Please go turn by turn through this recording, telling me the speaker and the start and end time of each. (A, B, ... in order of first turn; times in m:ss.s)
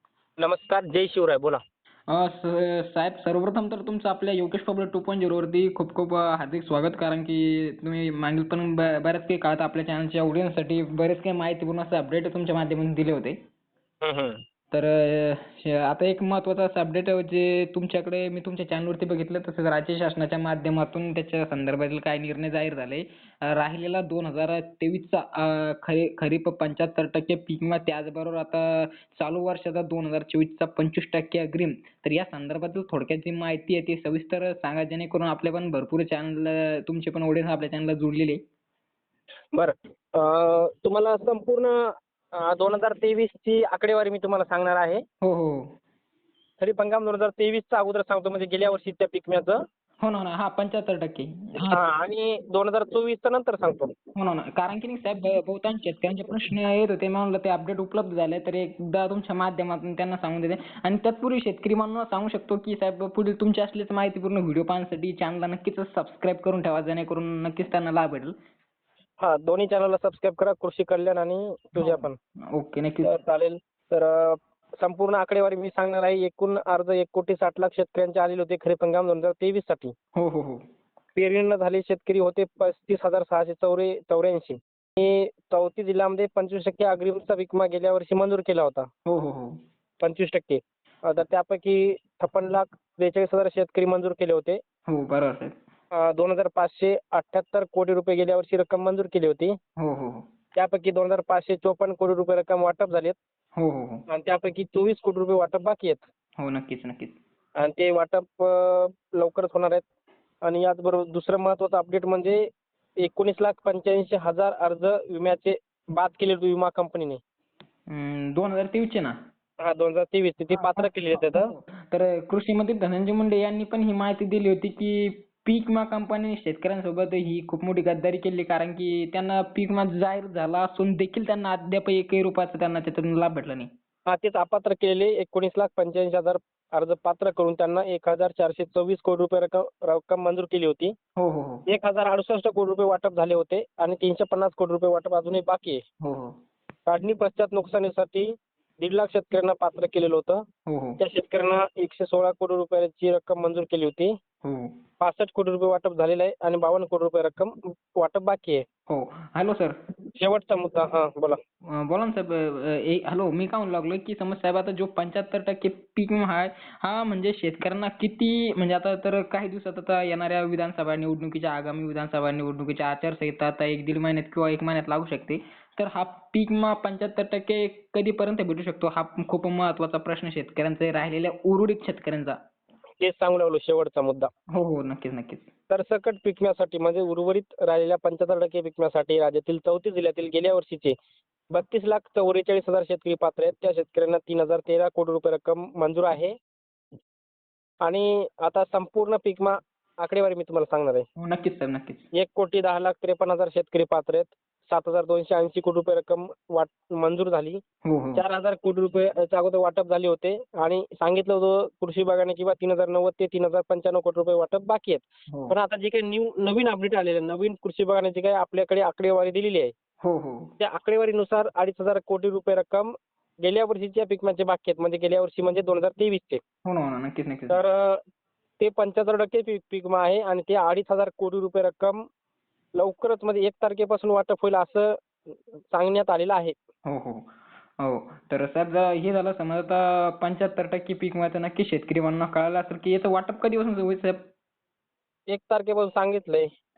0:00.4-0:01.6 A
0:02.1-0:13.4 B
0:14.0-0:14.4 A
0:14.7-0:38.4 B
0:39.5-0:45.0 A
0:45.2-0:45.7 B
0:46.6-0:49.6 A
0:50.0-0:51.8 B
0:51.7-0:53.9 A
0:54.2-1:08.3 B
1:09.2-1:12.2 A
1:11.8-1:13.1 B
1:13.0-1:19.9 A
1:20.2-1:20.6 B
1:21.2-1:28.9 A
1:29.0-1:29.6 B
1:30.0-1:34.6 A
1:34.9-1:35.5 B
1:35.9-1:39.6 A
1:39.8-1:40.2 B
1:40.5-1:43.2 A
1:43.6-1:44.0 B
1:44.1-1:46.0 A
1:46.4-1:47.2 B
1:47.6-1:49.8 A
1:50.4-1:52.4 A
1:53.0-1:57.2 A
1:57.9-1:59.2 B
1:59.6-2:01.5 A
2:00.5-2:13.7 B
2:14.1-2:20.9 A
2:21.2-2:21.6 B
2:21.7-2:25.8 A
2:26.0-2:26.3 B
2:26.9-2:28.3 A
2:28.8-2:30.4 A
2:30.7-2:31.0 B
2:31.0-2:34.1 A
2:34.4-2:34.7 B
2:35.0-2:38.6 A
2:38.9-2:39.8 B
2:40.2-2:41.4 A
2:41.8-3:02.4 B
3:03.0-3:04.3 A
3:04.5-3:05.5 B
3:05.7-3:10.9 A
3:11.5-3:16.3 A
3:17.8-3:21.0 A
3:21.2-3:22.0 B
3:22.1-3:27.6 A
3:27.8-3:28.2 B
3:28.2-3:39.7 A
3:35.3-3:35.5 B
3:40.0-3:40.5 B
3:40.6-3:46.4 A
3:46.6-3:47.6 B
3:47.5-3:48.0 A
3:48.6-3:52.0 A
3:52.7-3:56.6 A
3:56.8-3:57.3 B
3:57.8-4:04.3 B
4:05.3-4:06.5 A